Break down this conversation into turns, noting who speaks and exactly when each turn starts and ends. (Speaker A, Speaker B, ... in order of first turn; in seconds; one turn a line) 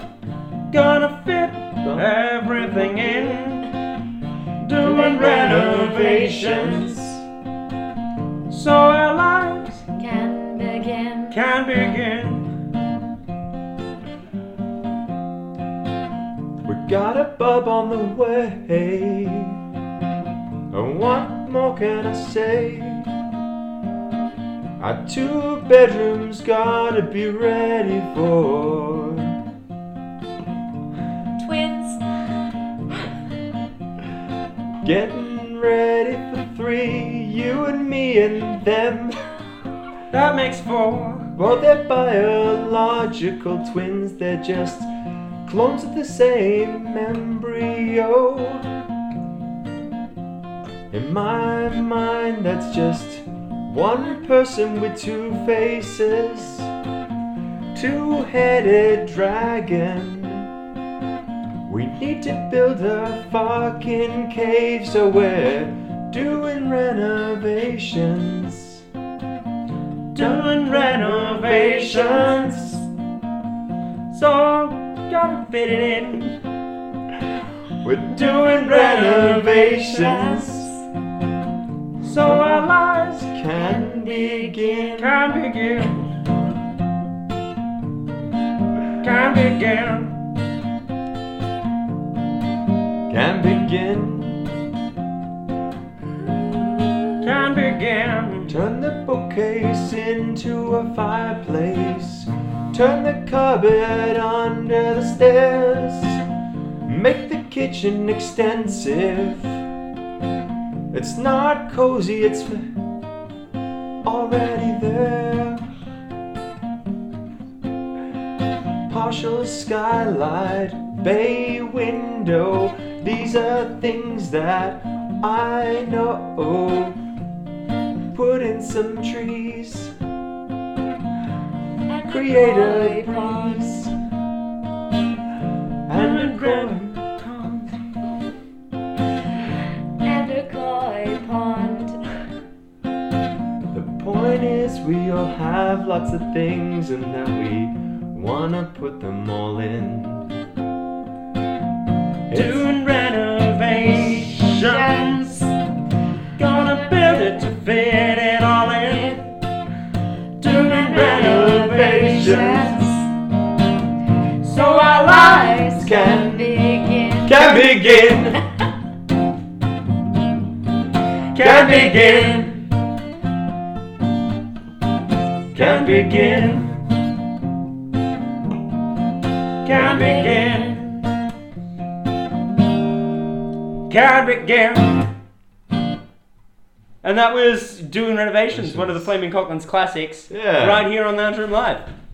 Speaker A: 0.7-3.7
Speaker B: 1.8-3.2
Speaker A: 4.6-6.9
Speaker B: 4.8-7.3
Speaker A: 8.5-9.8
Speaker C: 9.9-11.4
Speaker A: 11.3-12.5
Speaker B: 16.6-19.6
Speaker B: 20.7-23.1
Speaker B: 24.8-29.4
Speaker C: 31.4-32.0
Speaker B: 34.8-39.2
Speaker A: 40.1-41.3
Speaker B: 41.4-44.9
Speaker B: 45.5-48.6
Speaker B: 50.9-56.7
Speaker B: 57.7-60.5
Speaker B: 61.6-68.8
Speaker A: 70.1-72.4
Speaker B: 70.2-72.8
Speaker A: 74.1-76.4
Speaker B: 77.8-80.7
Speaker A: 78.1-80.4
Speaker C: 80.4-80.7
Speaker A: 82.0-83.3
Speaker B: 82.1-85.2
Speaker C: 83.7-84.9
Speaker A: 85.0-86.0
Speaker A: 89.0-90.2
Speaker B: 93.1-94.4
Speaker B: 96.5-97.1
Speaker A: 97.2-98.6
Speaker B: 98.5-106.2
Speaker B: 106.8-109.6
Speaker B: 110.9-112.7
Speaker B: 114.0-115.6
Speaker B: 118.9-127.0
Speaker B: 128.1-129.9
Speaker C: 131.9-133.8
Speaker B: 132.1-133.9
Speaker B: 135.9-137.0
Speaker A: 135.9-137.7
Speaker C: 140.0-142.0
Speaker B: 143.7-150.3
Speaker B: 152.3-152.7
Speaker A: 152.3-155.5
Speaker C: 154.3-155.4
Speaker A: 156.3-159.3
Speaker C: 156.9-157.3
Speaker A: 160.4-162.7
Speaker C: 160.4-163.0
Speaker B: 160.9-162.9
Speaker A: 164.4-165.7
Speaker C: 164.4-168.3
Speaker B: 165.7-166.5
Speaker B: 167.2-168.4
Speaker A: 171.3-172.6
Speaker B: 171.3-172.6
Speaker A: 175.5-176.7
Speaker B: 175.5-176.7
Speaker A: 179.6-180.8
Speaker C: 179.7-181.0
Speaker A: 183.9-184.9
Speaker A: 187.0-191.8
Speaker B: 188.5-189.1
Speaker B: 190.3-190.9